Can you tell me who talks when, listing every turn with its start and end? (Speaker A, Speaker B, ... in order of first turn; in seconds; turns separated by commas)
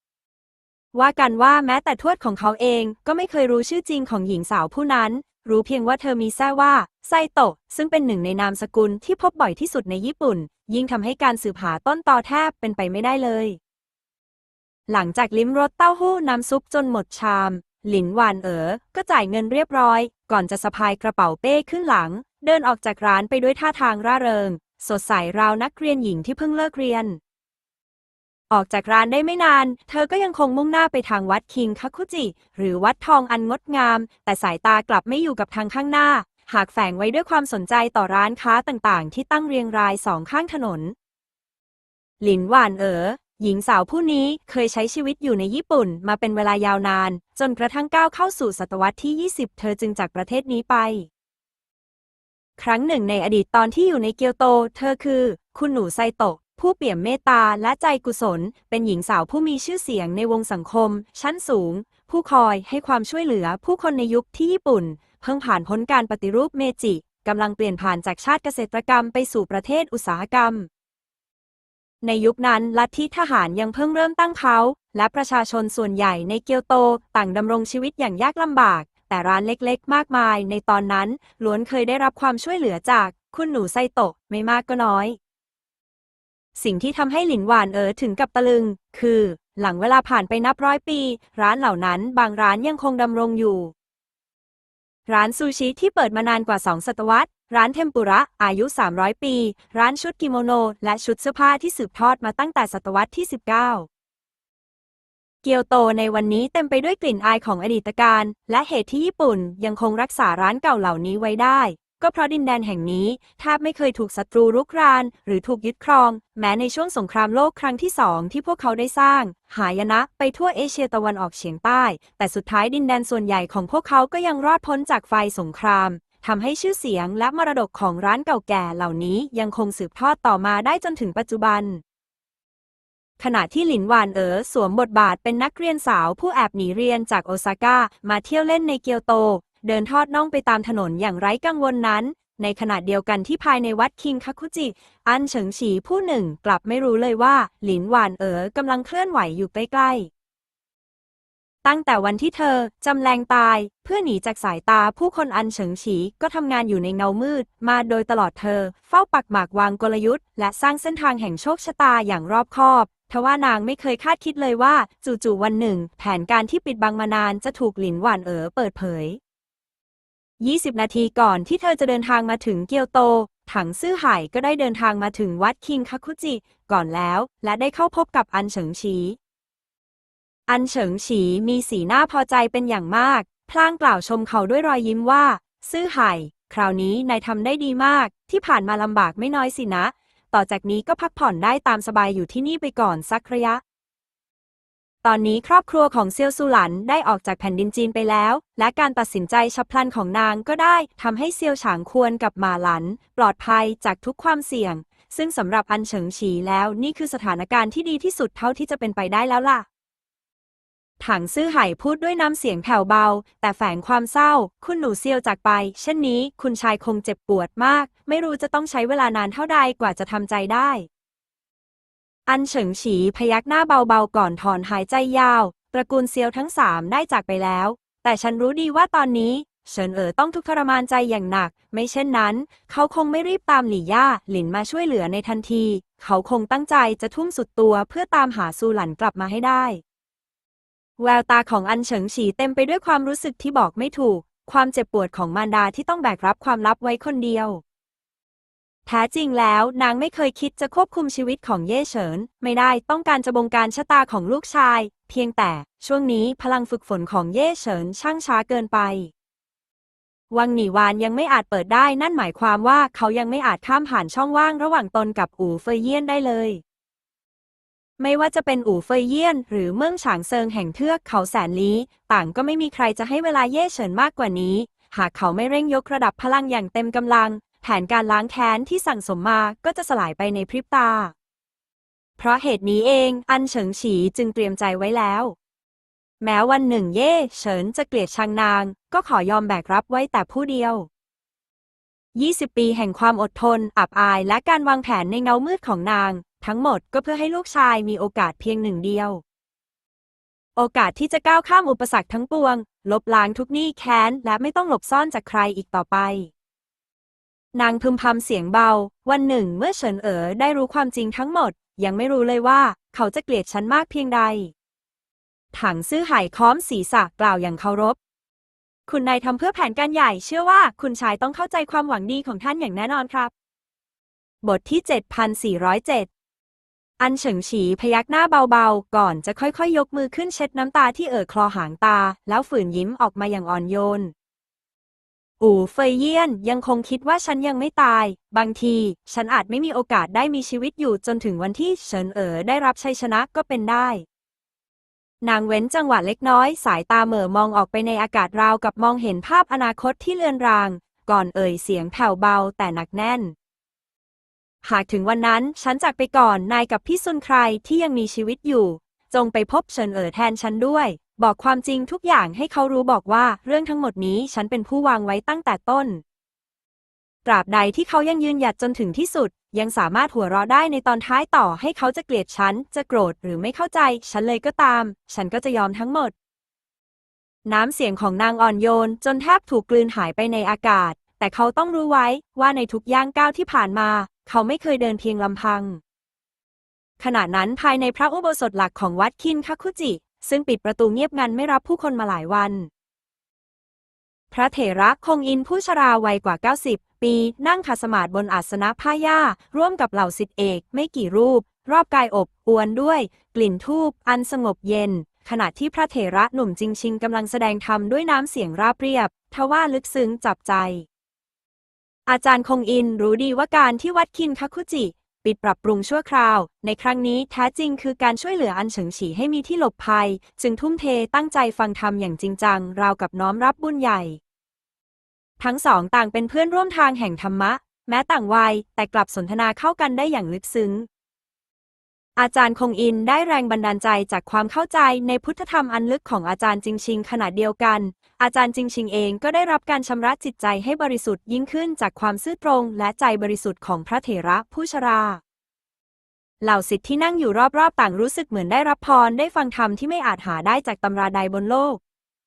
Speaker A: 0.9-13.6, Speaker A: 14.9-27.2, Speaker A: 28.5-40.9, Speaker A: 42.2-51.1, Speaker A: 52.6-70.7, Speaker A: 72.0-85.2, Speaker A: 86.5-93.7, Speaker A: 95.1-103.9, Speaker A: 105.4-131.8, Speaker A: 133.2-150.1, Speaker A: 151.6-169.2, Speaker A: 170.4-179.2, Speaker A: 180.5-193.6, Speaker A: 195.0-209.7, Speaker A: 211.0-220.9, Speaker A: 222.3-239.8, Speaker A: 241.0-247.6, Speaker A: 248.8-259.1, Speaker A: 260.3-266.6, Speaker A: 268.0-281.1, Speaker A: 282.2-285.4, Speaker A: 286.2-290.9, Speaker A: 292.1-299.2, Speaker A: 300.6-306.3, Speaker A: 307.5-314.5, Speaker A: 315.5-318.0, Speaker A: 318.9-323.3, Speaker A: 324.4-326.1, Speaker A: 327.0-334.1, Speaker A: 335.4-344.0, Speaker A: 345.2-353.3, Speaker A: 354.6-366.0, Speaker A: 367.2-376.1, Speaker A: 377.4-385.8, Speaker A: 387.0-392.7, Speaker A: 394.3-410.9, Speaker A: 412.1-424.2, Speaker A: 425.4-430.9, Speaker A: 432.2-445.2, Speaker A: 446.4-451.8